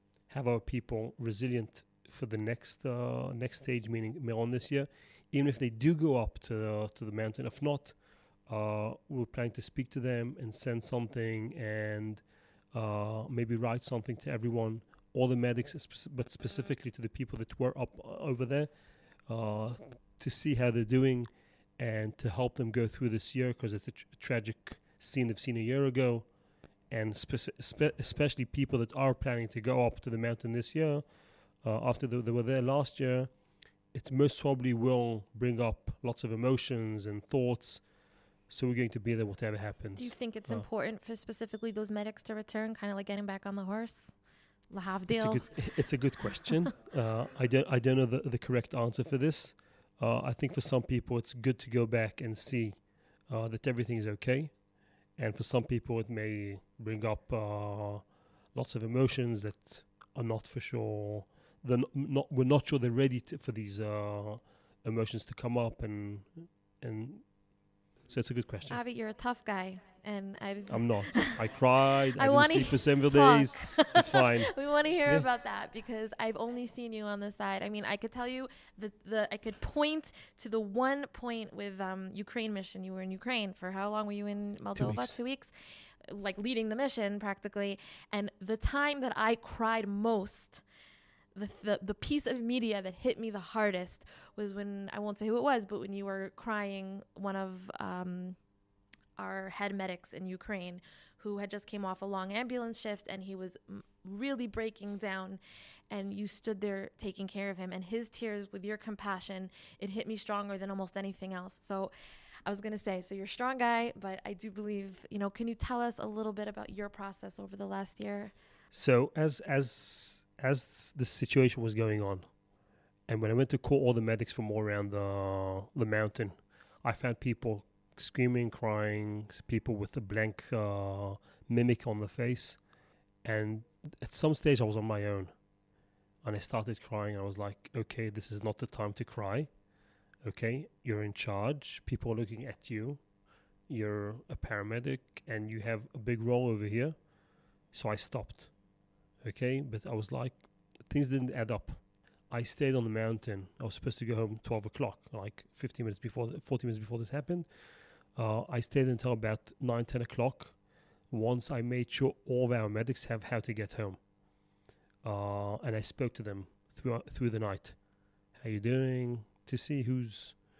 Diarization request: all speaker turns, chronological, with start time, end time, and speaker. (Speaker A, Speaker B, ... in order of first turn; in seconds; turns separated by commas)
Speaker A: 0.3-18.7, Speaker A: 19.2-26.3, Speaker A: 26.9-31.1, Speaker A: 31.6-33.4, Speaker A: 33.9-37.9, Speaker A: 38.5-40.7, Speaker B: 39.9-45.7, Speaker A: 45.1-67.3, Speaker A: 68.0-68.8, Speaker B: 68.7-71.6, Speaker A: 70.7-75.3, Speaker B: 72.1-90.6, Speaker A: 84.8-85.2, Speaker B: 91.3-98.4, Speaker B: 99.2-111.9, Speaker B: 112.5-118.3, Speaker A: 118.7-122.3, Speaker A: 123.1-132.6, Speaker A: 133.2-135.3, Speaker A: 136.2-139.5, Speaker A: 140.2-143.0, Speaker A: 143.7-147.0, Speaker A: 147.7-148.5, Speaker A: 149.2-157.5, Speaker A: 158.1-160.6, Speaker A: 161.1-164.0, Speaker A: 165.0-167.8, Speaker A: 168.4-170.4